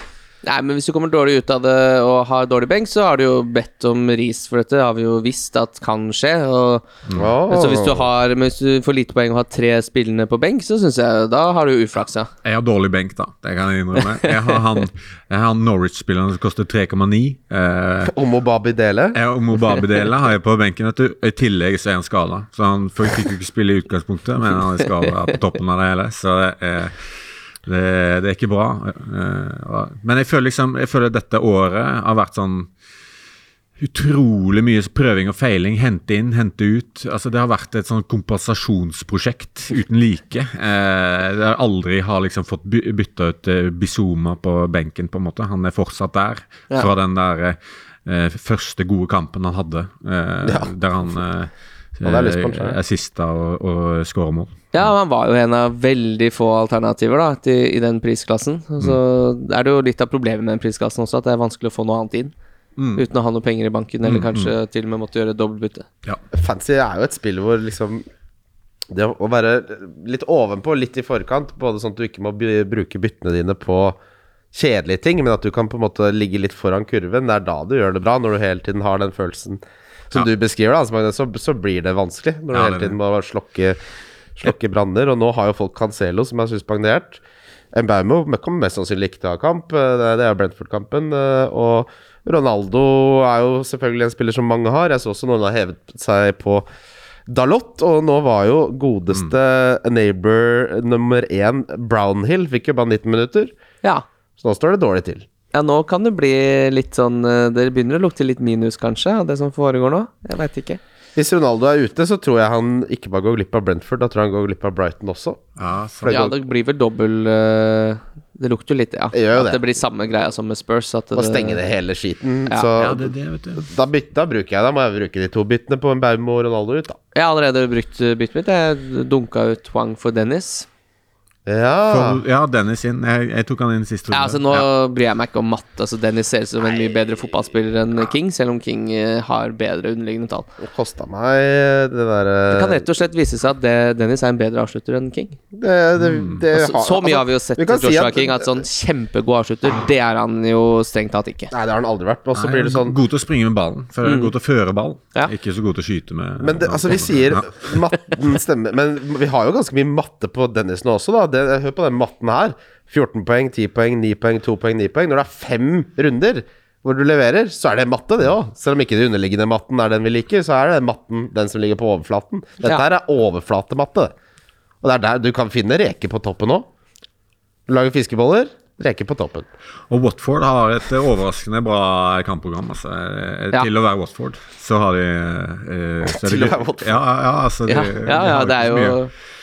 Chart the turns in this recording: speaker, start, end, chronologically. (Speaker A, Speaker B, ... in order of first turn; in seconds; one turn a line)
Speaker A: 0.4-6.9
Speaker B: 7.1-7.3
Speaker C: 7.2-8.1
Speaker A: 7.5-12.3
Speaker B: 12.4-18.1
Speaker C: 18.1-19.2
Speaker B: 19.1-27.0
Speaker B: 27.7-32.7
Speaker B: 33.8-54.9
Speaker C: 50.4-50.7
Speaker C: 52.0-52.8
Speaker A: 54.7-62.3
Speaker B: 62.8-63.0
Speaker A: 63.0-65.9
Speaker B: 64.0-64.5
Speaker C: 66.3-68.0
Speaker C: 68.9-74.0
Speaker C: 74.5-83.8
Speaker B: 82.5-83.0
Speaker C: 84.4-87.2
Speaker C: 87.7-96.7
Speaker C: 97.3-103.5
Speaker C: 104.4-105.3
Speaker A: 105.5-110.8
Speaker C: 111.2-115.4
Speaker B: 115.6-116.2
Speaker C: 116.0-116.4
Speaker A: 116.1-121.6
Speaker C: 119.1-119.6
Speaker C: 121.2-127.0
Speaker B: 122.8-123.7
Speaker A: 127.1-130.7
Speaker C: 131.5-132.2
Speaker B: 131.9-134.7
Speaker A: 134.1-140.5
Speaker C: 140.6-142.9
Speaker A: 142.5-145.4
Speaker C: 145.5-148.6
Speaker B: 146.0-146.4
Speaker A: 146.5-151.5
Speaker C: 151.5-153.0
Speaker B: 152.3-157.7
Speaker A: 154.0-154.3
Speaker C: 156.4-174.1
Speaker C: 174.8-176.7
Speaker C: 177.7-179.5
Speaker B: 179.9-189.0
Speaker C: 186.0-187.0
Speaker A: 187.7-189.1